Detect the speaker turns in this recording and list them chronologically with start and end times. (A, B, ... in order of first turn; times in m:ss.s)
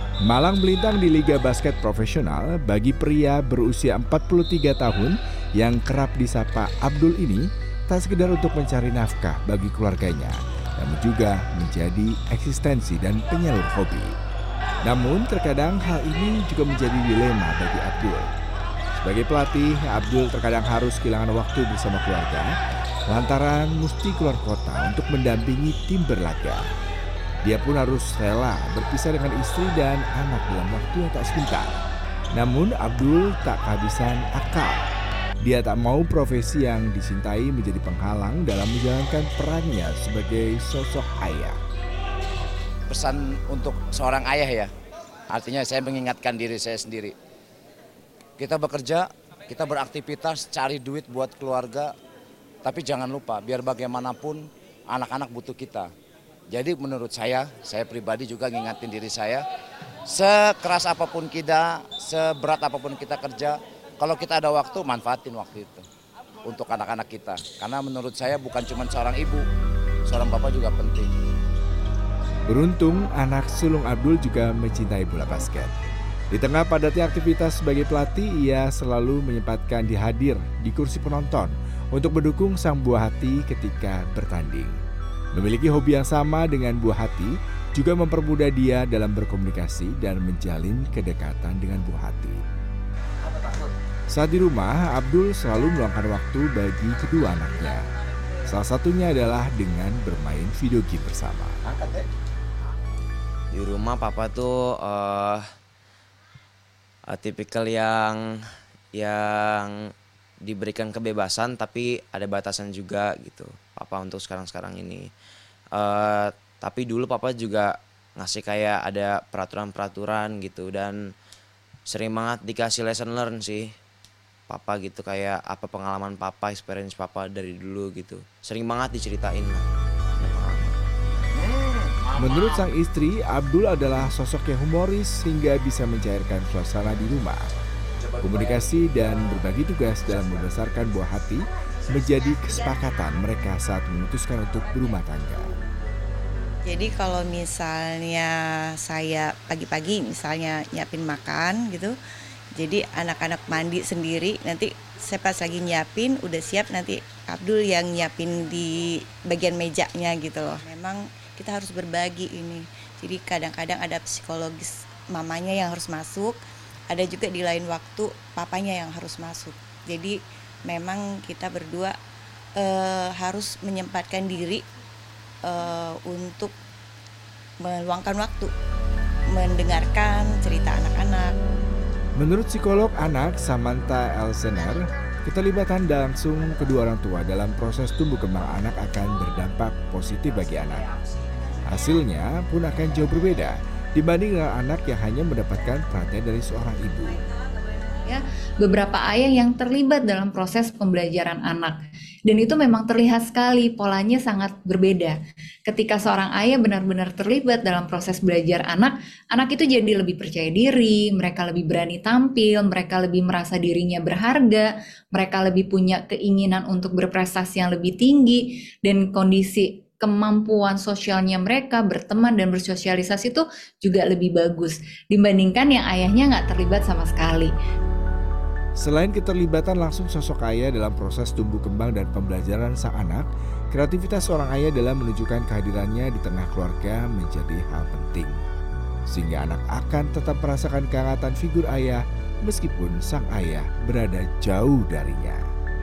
0:00.3-0:14.2 A
0:14.8-0:18.3 A
0:19.0-0:22.5 A
0:23.1-0:26.6 A
0:27.4-0:31.8 A
0:32.4-0:34.8 A
0:35.4-0:41.6 A
0:42.9-0:44.7 B
0:45.3-0:47.1 B
0:48.4-0:51.9 B
0:52.6-0:55.9 B
0:56.5-0:59.4 B
1:00.1-1:05.8 B
1:06.5-1:09.4 B
1:10.1-1:11.1 B
1:12.5-1:15.8 A
1:16.3-1:24.8 A
1:25.3-1:32.4 A
1:34.1-1:37.9 A
1:38.5-1:41.6 A
1:43.5-1:45.4 C
1:47.1-1:48.2 C
1:49.0-1:49.7 C
1:50.4-1:55.1 C
1:55.8-2:01.0 C
2:01.9-2:03.7 C
2:04.5-2:09.7 C
2:10.2-2:10.8 C
2:12.1-2:12.4 B
2:12.2-2:17.4 A
2:18.2-2:25.5 A
2:26.7-2:32.0 D
2:32.6-2:50.2 D
2:50.7-2:52.0 D
2:52.6-2:54.6 D
2:55.4-2:56.5 D
2:57.6-2:58.5 D
2:59.3-3:01.3 D
3:02.2-3:10.9 A
3:11.7-3:17.2 A
3:18.0-3:25.2 E
3:25.7-3:47.5 E
3:48.8-3:58.4 A
3:59.1-4:05.4 A